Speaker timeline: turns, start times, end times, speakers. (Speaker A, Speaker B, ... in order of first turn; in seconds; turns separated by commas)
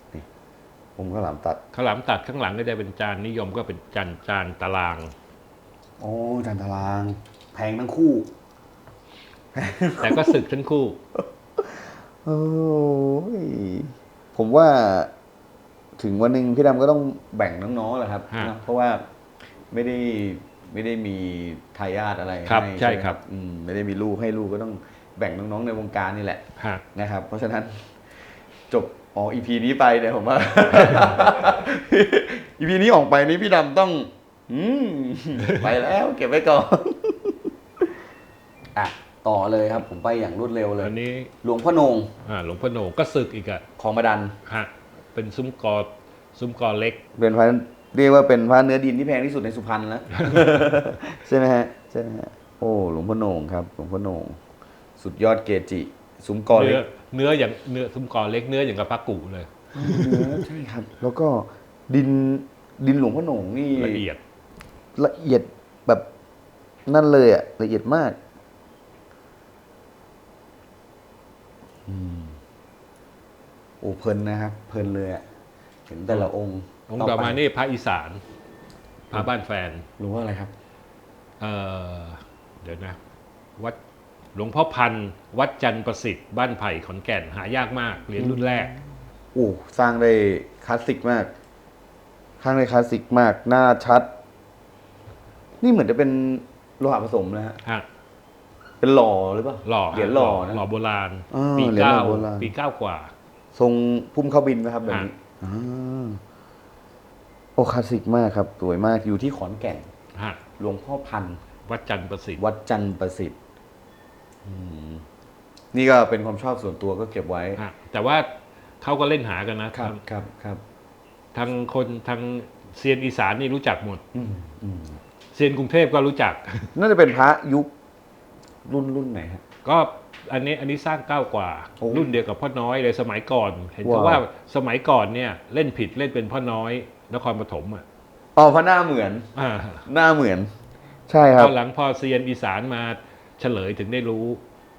Speaker A: 1.0-1.6, Speaker B: 1.7-5.1, Speaker A: 6.0-8.3, Speaker A: 9.5-10.4, Speaker B: 10.0-11.0, Speaker A: 11.2-15.1, Speaker A: 16.0-19.0, Speaker A: 19.7-26.4, Speaker B: 22.5-23.2, Speaker B: 26.6-26.8, Speaker A: 26.9-27.9, Speaker A: 28.7-37.5, Speaker B: 30.8-31.1, Speaker B: 35.4-35.7, Speaker A: 38.8-42.1, Speaker B: 40.8-41.3, Speaker B: 42.2-43.6, Speaker A: 43.8-44.4, Speaker B: 44.5-47.0, Speaker A: 47.2-54.4, Speaker B: 50.1-50.5, Speaker A: 55.0-56.8, Speaker B: 56.5-60.5, Speaker A: 59.8-64.0, Speaker B: 63.8-64.2, Speaker A: 65.0-66.1, Speaker A: 66.9-68.2, Speaker A: 71.9-72.4, Speaker A: 73.8-75.2, Speaker A: 75.9-77.4, Speaker B: 76.9-78.2, Speaker B: 79.1-79.9, Speaker A: 80.0-80.5, Speaker B: 81.4-83.0, Speaker B: 84.3-88.8, Speaker A: 88.2-88.8, Speaker A: 89.3-91.3, Speaker A: 92.4-94.1, Speaker A: 95.6-97.6, Speaker A: 98.8-100.6, Speaker B: 99.7-103.1, Speaker A: 101.3-102.5, Speaker A: 103.5-106.2, Speaker A: 107.6-109.9, Speaker B: 110.2-110.4, Speaker A: 110.6-111.4, Speaker B: 111.7-112.4, Speaker A: 112.4-113.4, Speaker A: 114.4-115.0, Speaker A: 115.7-117.6, Speaker B: 117.6-118.3, Speaker B: 118.8-120.0, Speaker A: 119.7-120.6, Speaker B: 121.3-124.0, Speaker A: 124.1-125.0, Speaker B: 125.3-126.7, Speaker A: 126.8-127.7, Speaker A: 128.7-129.4, Speaker B: 129.7-137.8, Speaker A: 131.8-132.1, Speaker A: 133.8-134.2, Speaker A: 138.4-139.3, Speaker B: 139.3-139.9, Speaker A: 139.9-140.5, Speaker A: 141.1-141.5, Speaker B: 141.4-144.4